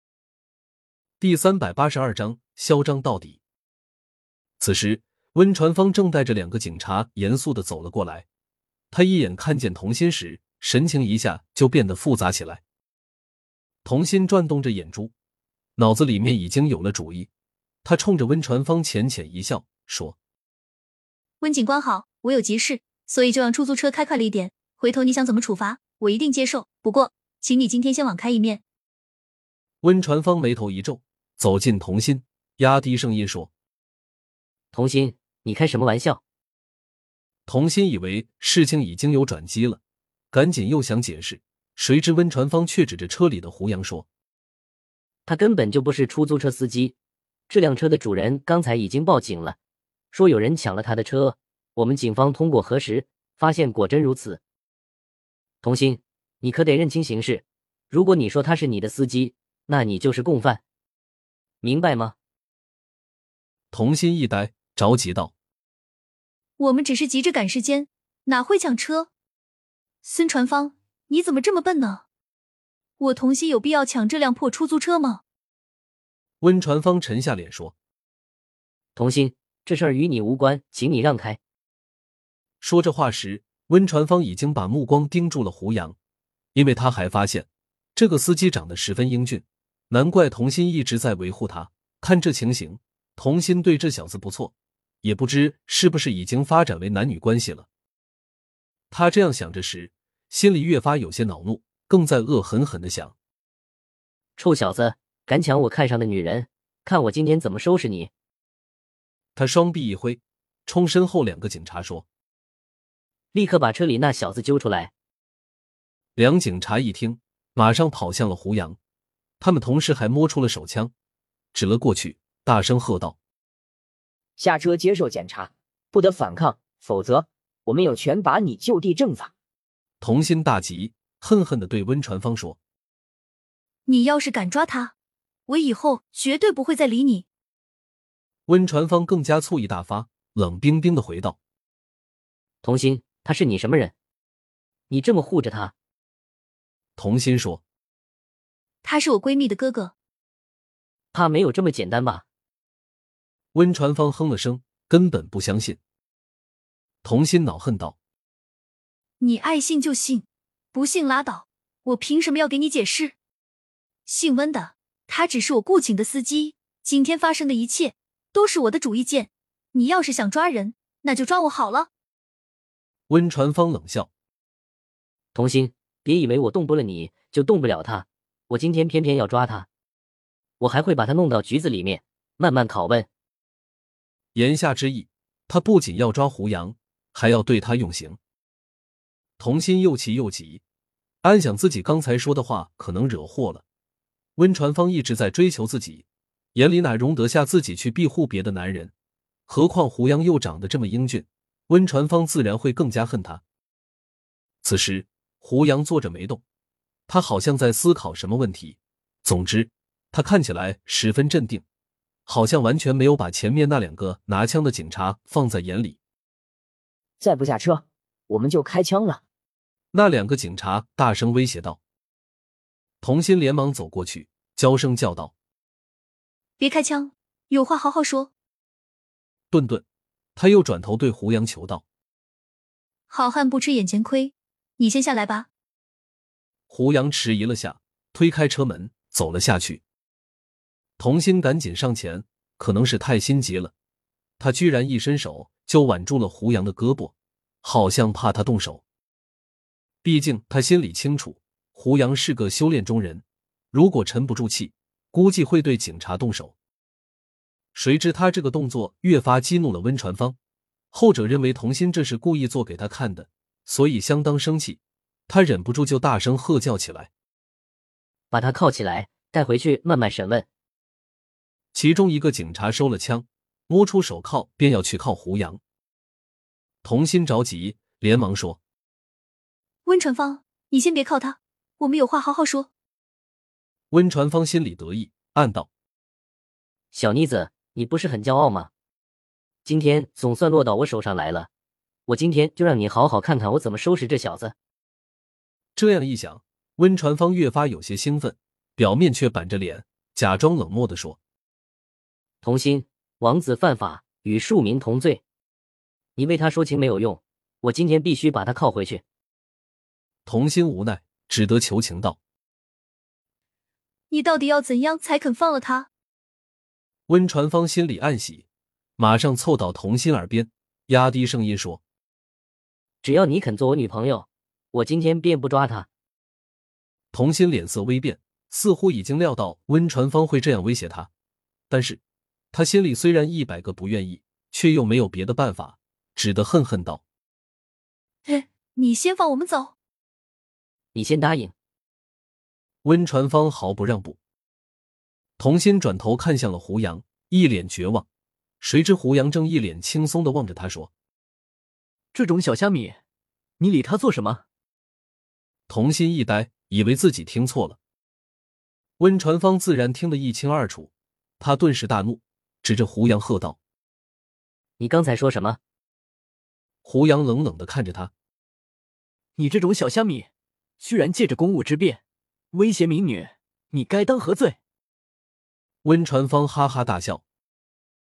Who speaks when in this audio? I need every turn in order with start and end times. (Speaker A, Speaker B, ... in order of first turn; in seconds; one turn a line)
Speaker A: 1.2-3.4
Speaker A: 4.6-8.2
Speaker A: 8.9-12.6
Speaker A: 13.8-15.1
Speaker A: 15.8-17.3
Speaker A: 17.8-20.1
Speaker B: 21.4-28.6
Speaker A: 29.8-33.5
Speaker C: 34.7-36.2
Speaker A: 37.5-39.8
Speaker A: 40.3-44.1
Speaker C: 45.2-46.9
Speaker C: 47.5-49.6
Speaker C: 50.1-54.4
Speaker C: 55.6-60.6
Speaker C: 61.6-62.1
Speaker A: 63.7-65.3
Speaker B: 66.6-69.1
Speaker B: 70.0-72.0
Speaker B: 73.0-75.2
Speaker A: 76.4-77.7
Speaker C: 79.0-81.4
Speaker A: 82.6-85.9
Speaker A: 86.5-94.5
Speaker A: 95.0-97.7
Speaker A: 98.9-103.1
Speaker C: 104.4-108.1
Speaker A: 109.3-112.0
Speaker C: 113.3-114.9
Speaker A: 116.2-118.8
Speaker A: 119.4-120.9
Speaker A: 121.5-123.2
Speaker D: 124.4-129.3
Speaker A: 130.0-132.6
Speaker B: 133.8-134.9
Speaker B: 135.5-137.2
Speaker A: 138.5-141.4
Speaker C: 142.6-143.9
Speaker C: 144.9-145.7
Speaker A: 147.0-147.6
Speaker B: 148.8-149.9
Speaker C: 151.1-152.2
Speaker A: 153.5-155.8
Speaker A: 157.0-157.9
Speaker B: 159.2-163.2
Speaker B: 164.1-171.9
Speaker A: 173.1-174.1
Speaker C: 175.3-179.7
Speaker C: 180.6-183.1
Speaker A: 184.3-188.2
Speaker A: 189.4-190.6
Speaker A: 191.2-193.6
Speaker A: 194.4-198.9
Speaker A: 199.5-203.4
Speaker A: 204.6-206.4
Speaker A: 207.1-211.6
Speaker A: 212.3-216.0
Speaker D: 217.2-219.2
Speaker A: 219.9-221.8
Speaker A: 223.0-225.3
Speaker B: 226.6-228.3
Speaker A: 229.5-229.8
Speaker A: 230.3-231.8
Speaker B: 233.1-235.5
Speaker A: 236.7-239.8
Speaker A: 241.0-243.7
Speaker A: 244.4-248.8
Speaker A: 250.0-256.5
Speaker A: 257.7-260.4
Speaker A: 260.9-267.1
Speaker C: 268.3-270.4
Speaker A: 271.7-275.6
Speaker A: 276.8-278.6
Speaker B: 279.8-282.7
Speaker A: 283.9-285.7
Speaker C: 286.9-288.7
Speaker C: 289.6-291.5
Speaker C: 292.1-294.5
Speaker A: 295.8-301.2
Speaker C: 302.4-305.2
Speaker C: 306.1-309.0
Speaker A: 310.2-312.2
Speaker B: 314.1-315.9
Speaker A: 317.1-318.4
Speaker A: 319.0-321.8
Speaker C: 323.0-325.9
Speaker A: 327.1-331.1
Speaker A: 331.7-332.0
Speaker A: 332.5-337.0
Speaker B: 338.2-339.7
Speaker C: 340.9-341.5
Speaker A: 342.8-344.2
Speaker A: 345.4-348.1
Speaker A: 348.6-350.9
Speaker E: 352.1-353.0
Speaker E: 353.6-354.4
Speaker A: 355.7-357.8
Speaker A: 359.0-363.6
Speaker C: 364.8-365.6
Speaker A: 366.8-368.1
Speaker E: 369.4-370.3
Speaker E: 370.8-372.0
Speaker E: 372.5-374.6
Speaker A: 375.8-377.2